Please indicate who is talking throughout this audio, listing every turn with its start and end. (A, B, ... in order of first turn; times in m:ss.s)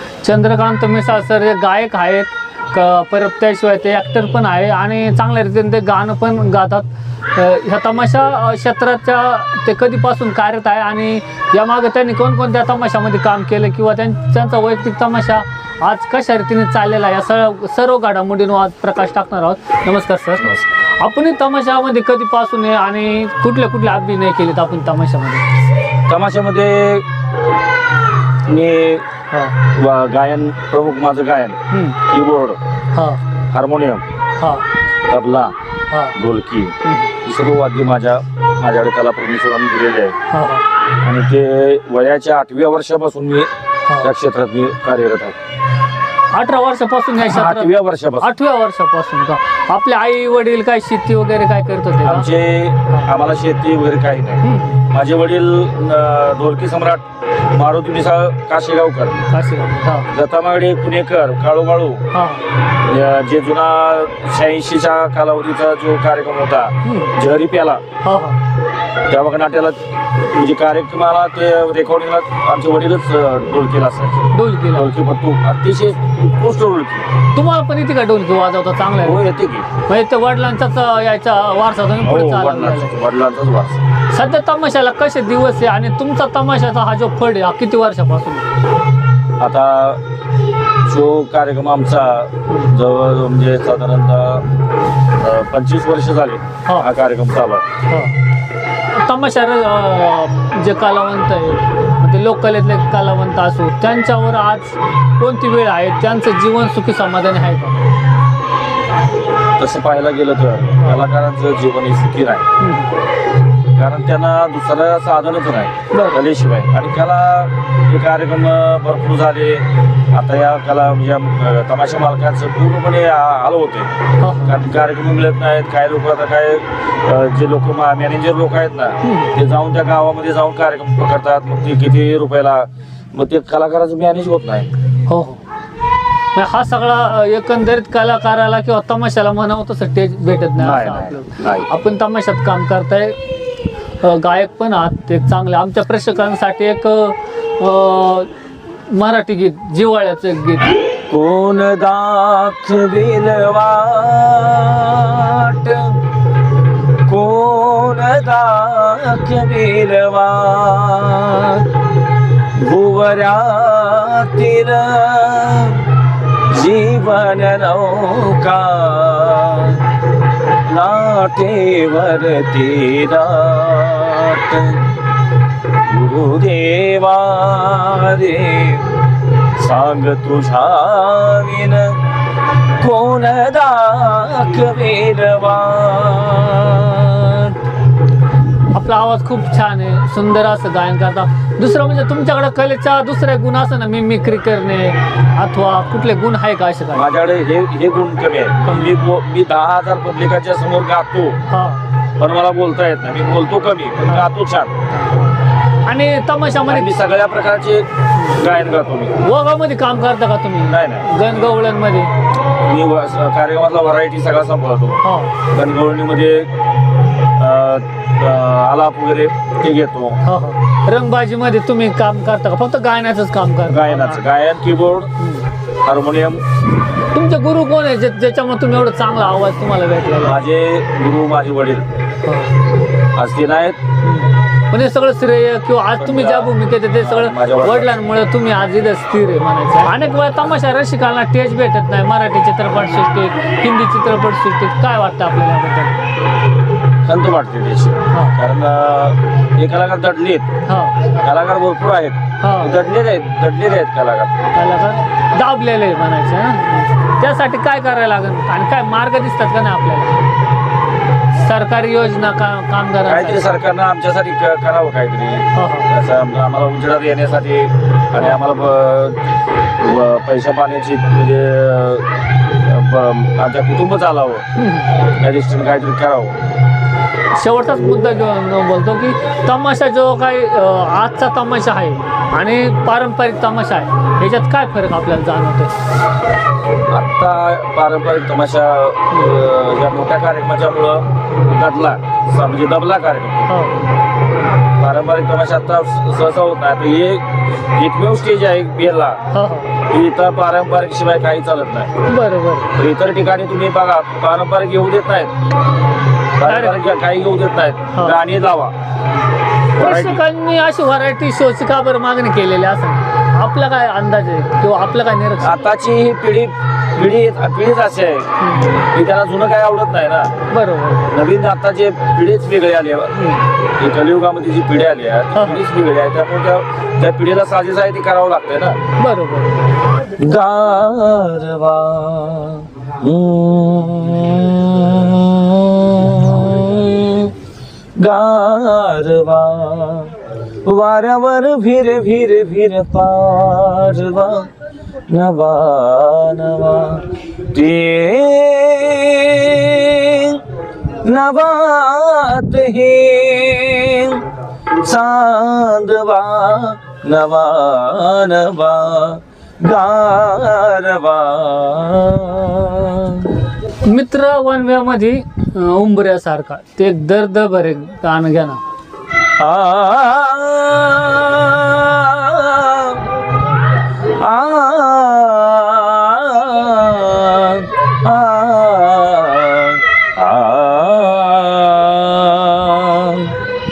0:00.2-0:25.6 A
0:26.1-0:27.1 B
0:28.5-0:29.0 B
0:29.3-0:29.6 A
0:29.6-0:32.6 B
0:31.7-0:32.0 A
0:32.9-0:33.2 A
0:33.5-0:34.0 B
0:34.4-0:34.7 A
0:35.1-0:35.5 B
0:35.9-0:36.2 A
0:36.2-0:40.2 B
0:36.8-0:37.1 A
0:40.3-0:40.6 A
0:41.0-0:45.4 B
0:43.9-0:44.1 A
0:46.3-0:52.3 A
0:47.2-0:48.3 B
0:52.0-0:59.2 B
0:54.4-0:54.8 A
0:59.3-1:00.1 A
1:00.1-1:02.0 B
1:02.1-1:02.5 A
1:02.7-1:07.8 B
1:06.8-1:07.2 A
1:08.0-1:08.4 A
1:09.1-1:17.1 B
1:14.3-1:14.9 A
1:17.3-1:19.2 A
1:19.0-1:19.7 B
1:19.9-1:23.0 A
1:22.0-1:23.8 B
1:24.1-1:28.5 A
1:29.4-1:30.0 B
1:30.9-1:34.4 B
1:35.2-1:37.6 B
1:37.9-1:38.2 A
1:38.9-1:47.8 A
1:49.6-1:52.5 B
1:52.6-1:52.9 A
1:53.8-2:03.9 B
1:55.9-1:56.2 A
2:04.2-2:04.6 A
2:04.4-2:14.7 B
2:09.0-2:09.3 A
2:15.1-2:15.4 A
2:16.3-2:23.2 A
2:20.6-2:21.7 B
2:24.0-2:28.3 A
2:28.9-2:30.8 A
2:31.1-2:36.0 B
2:37.1-2:41.7 B
2:42.6-2:45.8 B
2:46.5-2:49.8 B
2:50.7-2:54.9 B
2:55.9-2:58.9 B
2:59.6-3:02.0 B
3:02.8-3:07.6 B
3:08.7-3:17.1 A
3:16.9-3:21.4 B
3:18.7-3:19.0 A
3:21.5-3:21.8 A
3:22.2-3:24.7 B
3:24.9-3:27.0 A
3:26.7-3:29.2 B
3:29.2-3:32.1 A
3:30.7-3:31.1 B
3:32.5-3:36.5 B
3:35.0-3:35.4 A
3:37.4-3:40.2 B
3:40.2-3:44.2 A
3:43.7-3:45.1 B
3:45.2-3:45.5 A
3:45.8-3:46.4 B
3:47.1-3:50.4 A
3:50.2-3:51.9 B
3:52.2-3:52.5 A
3:53.2-3:53.8 B
3:54.0-4:06.0 A
3:56.0-3:57.9 B
4:07.0-4:10.5 B
4:08.1-4:08.4 A
4:10.6-4:11.0 A
4:11.2-4:14.3 B
4:12.4-4:12.8 A
4:14.5-4:20.2 A
4:21.3-4:23.4 A
4:23.1-4:29.2 B
4:25.6-4:25.9 A
4:29.8-4:34.4 B
4:34.6-4:35.0 A
4:35.1-4:36.4 B
4:37.3-4:45.8 A
4:46.9-4:53.5 B
4:53.5-4:53.8 A
4:54.8-4:59.2 B
4:59.3-4:59.8 A
4:59.9-5:02.0 B
5:02.1-5:02.7 A
5:02.7-5:05.3 B
5:06.4-5:08.7 B
5:06.4-5:06.8 A
5:07.9-5:08.2 A
5:09.8-5:15.6 A
5:09.8-5:10.2 B
5:15.4-5:20.3 B
5:18.4-5:18.8 A
5:20.5-5:21.2 A
5:21.1-5:28.8 B
5:23.1-5:23.4 A
5:25.3-5:25.6 A
5:29.0-5:29.7 A
5:30.1-5:37.3 B
5:38.0-5:44.5 B
5:45.1-5:50.4 B
5:51.0-5:54.2 B
5:54.8-6:03.4 B
6:03.8-6:08.6 A
6:09.4-6:13.1 B
6:14.1-6:23.4 B